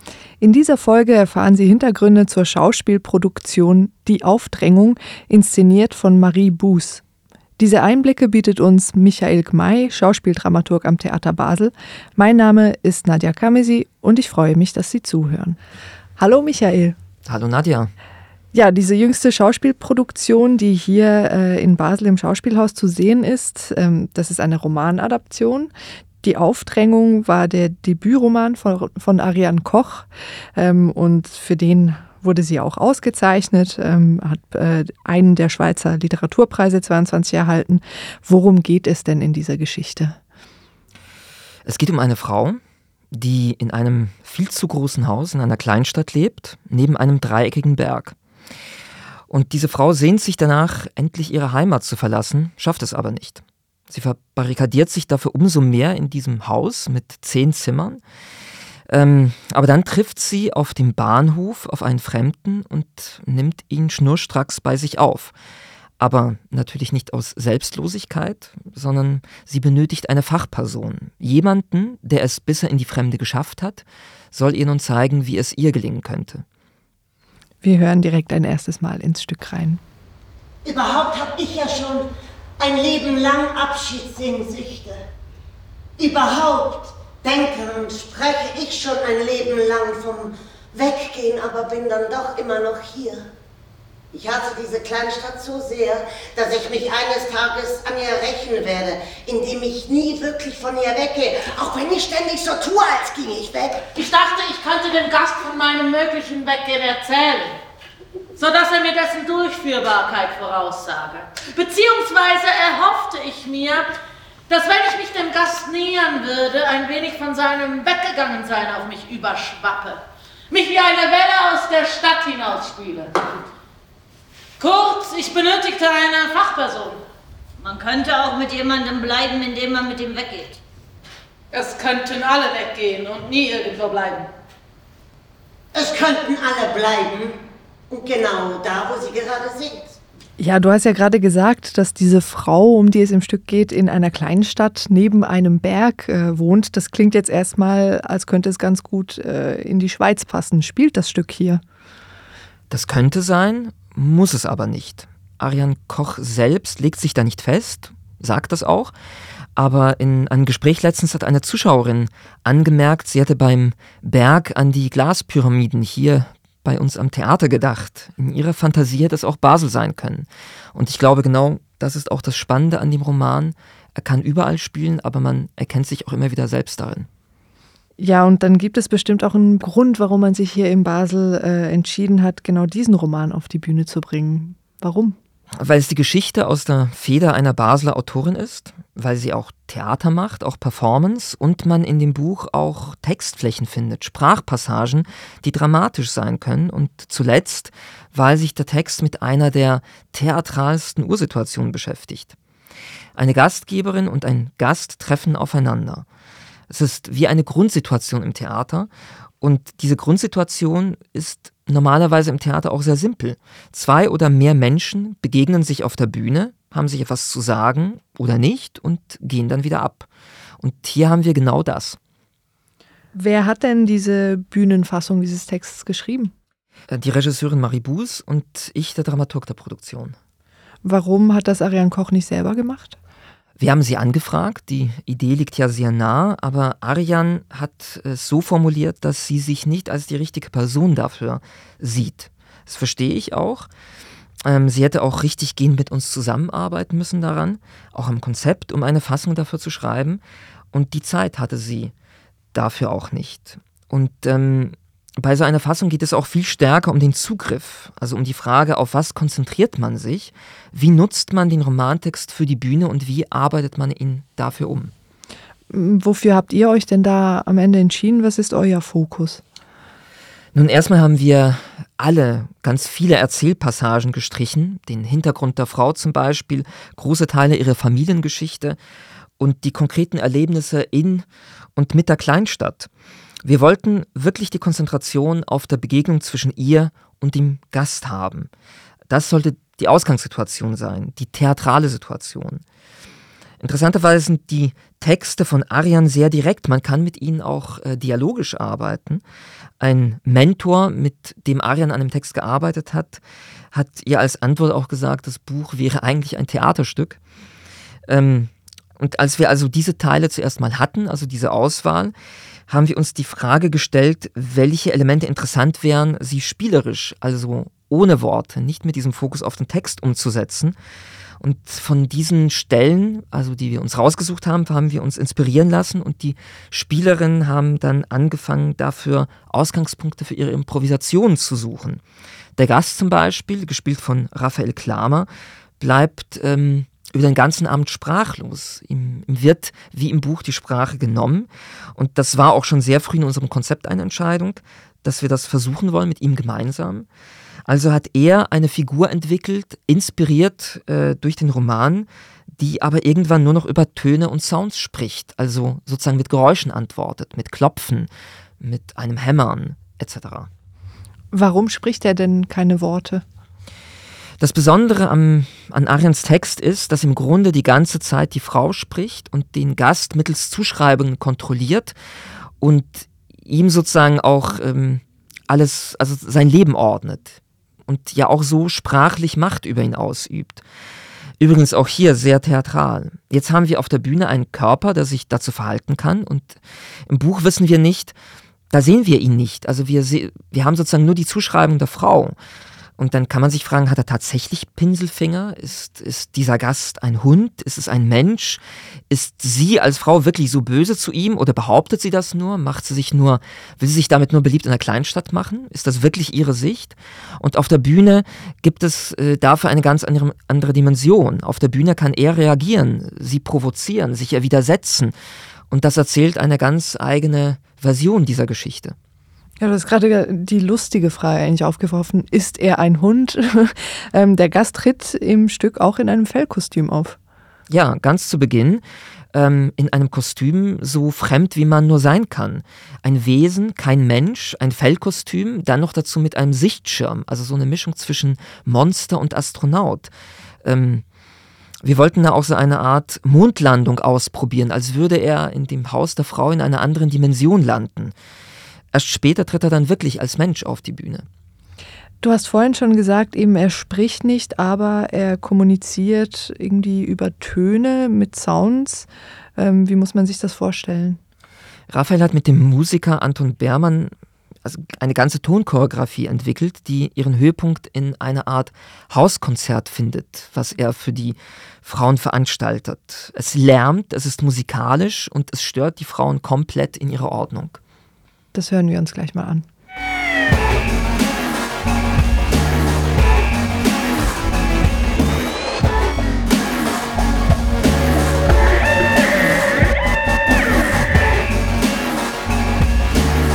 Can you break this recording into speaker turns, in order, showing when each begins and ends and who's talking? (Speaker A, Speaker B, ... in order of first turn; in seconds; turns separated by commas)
Speaker A: 0.4-7.0, Speaker A: 7.6-15.6, Speaker A: 16.2-17.0, Speaker B: 17.2-17.9, Speaker A: 18.5-25.7, Speaker A: 26.2-40.2, Speaker B: 41.7-42.6, Speaker B: 43.1-48.1, Speaker B: 49.3-58.0, Speaker B: 58.9-65.3, Speaker B: 66.0-76.4, Speaker A: 77.6-79.8, Speaker C: 80.7-85.0, Speaker C: 86.0-93.3, Speaker C: 94.1-103.8, Speaker D: 104.0-107.5, Speaker D: 108.4-113.9, Speaker D: 114.5-120.0, Speaker D: 120.5-123.3, Speaker D: 124.6-127.0, Speaker E: 127.6-130.6, Speaker D: 131.5-134.3, Speaker C: 135.7-137.4, Speaker C: 137.9-140.0, Speaker A: 140.4-151.6, Speaker B: 152.7-158.9, Speaker B: 159.6-177.1, Speaker A: 178.0-185.2, Speaker B: 185.6-202.3, Speaker B: 203.2-206.1, Speaker B: 206.7-220.1, Speaker B: 220.6-222.0, Speaker A: 223.1-226.3, Speaker B: 226.9-230.2, Speaker A: 230.8-233.0, Speaker B: 233.6-243.7, Speaker B: 244.4-251.9, Speaker B: 252.5-264.9, Speaker A: 265.7-269.4, Speaker B: 270.5-278.8, Speaker B: 279.4-282.9, Speaker B: 283.4-288.5, Speaker B: 289.1-292.6, Speaker B: 293.6-299.2, Speaker B: 299.8-303.2, Speaker B: 303.7-307.2, Speaker B: 308.1-312.1, Speaker B: 312.7-320.8, Speaker B: 321.4-332.0, Speaker B: 332.6-335.3, Speaker B: 335.8-347.1, Speaker B: 347.7-360.5, Speaker A: 361.3-363.2, Speaker B: 364.4-371.9, Speaker B: 372.6-380.6, Speaker B: 381.4-388.2, Speaker B: 388.7-392.4, Speaker B: 393.0-415.1, Speaker B: 415.7-419.0, Speaker A: 419.6-427.2, Speaker B: 427.7-440.1, Speaker B: 440.6-441.0, Speaker B: 441.8-448.1, Speaker B: 448.9-451.2, Speaker A: 452.2-461.2, Speaker B: 461.9-464.1, Speaker B: 464.6-477.8, Speaker A: 478.5-479.6